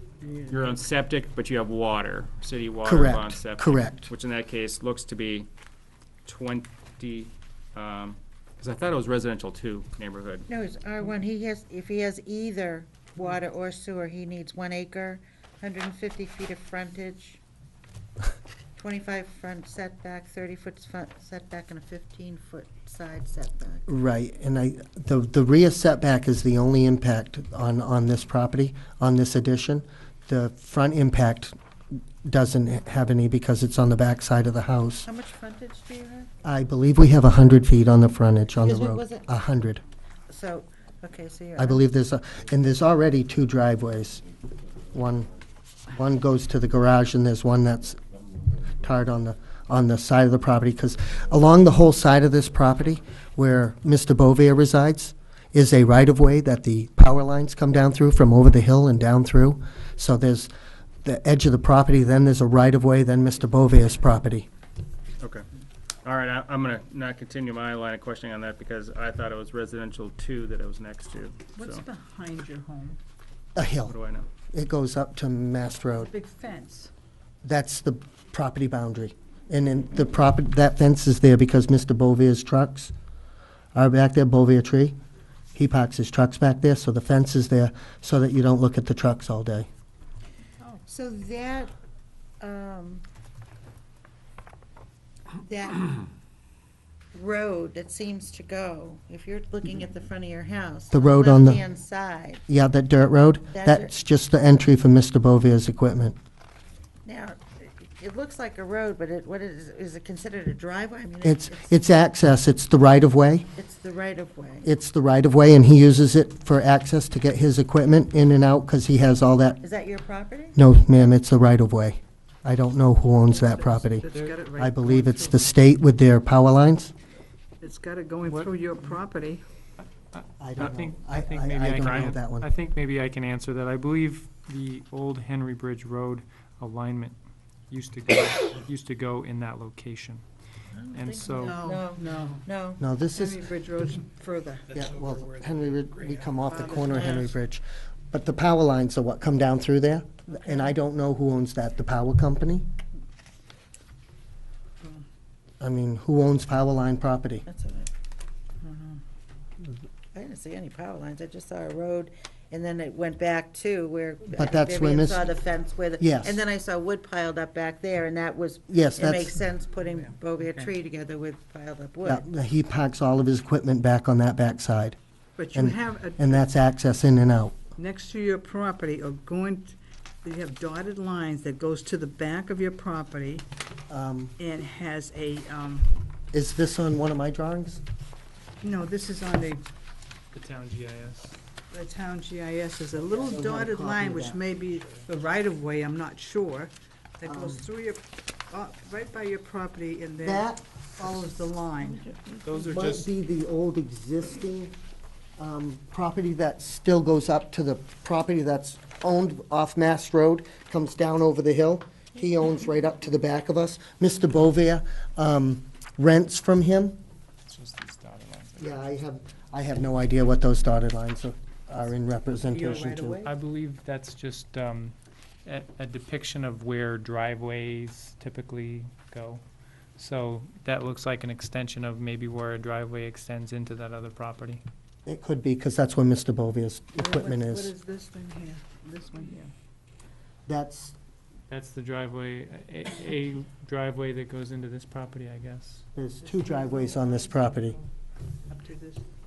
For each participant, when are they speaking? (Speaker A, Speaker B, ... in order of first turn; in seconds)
Speaker A: 0.2-0.7, 71.5-73.0, 75.9-76.9, 123.3-125.5, 127.6-129.4, 141.4-142.4, 143.1-144.9, 146.4-147.3, 158.6-159.0, 169.8-170.7, 175.4-176.4, 177.8-183.4, 184.4-185.9, 188.6-189.7, 191.7-202.2, 222.3-223.3, 237.0-239.5, 246.3-247.8, 248.4-249.1
Speaker B: 0.5-5.5, 6.2-10.5, 65.2-65.5, 66.0-71.8, 73.8-74.3, 131.7-132.1, 202.5-203.0
Speaker C: 2.8-4.1, 23.9-31.5, 32.2-35.1, 36.4-39.8, 41.6-44.2, 44.9-45.3, 45.9-48.0, 48.8-60.5, 61.0-64.5, 73.5-74.0, 74.5-76.1, 77.4-82.9, 83.7-84.9, 85.5-89.7, 100.9-101.6, 102.5-106.2, 111.2-113.5, 114.6-119.6, 120.5-124.0, 124.6-126.9, 130.4-132.5, 142.8-143.4, 144.7-152.6, 155.6-157.4, 164.3-165.3, 166.0-166.4, 168.7-169.3, 172.0-175.0, 175.5-177.6, 183.9-184.3, 186.3-187.8, 193.2-194.4, 197.2-197.6, 200.2-200.6, 202.6-204.7, 205.4-217.0, 218.6-223.3, 235.1-237.7, 240.5-240.9, 245.9-247.8
Speaker D: 10.5-17.4, 18.8-23.9, 35.0-36.3, 38.6-39.2, 40.3-41.8, 90.8-91.7, 92.4-93.0, 95.4-96.0, 97.1-102.4, 103.5-103.9, 107.0-111.8, 113.5-114.7, 119.6-120.5, 140.7-142.8, 157.5-157.9, 160.1-172.2
Speaker E: 124.1-124.3, 130.1-137.2, 137.7-140.2, 140.9-141.6, 190.3-191.3, 202.5-202.9, 217.4-218.8, 223.2-229.4, 230.0-234.6, 241.5-245.8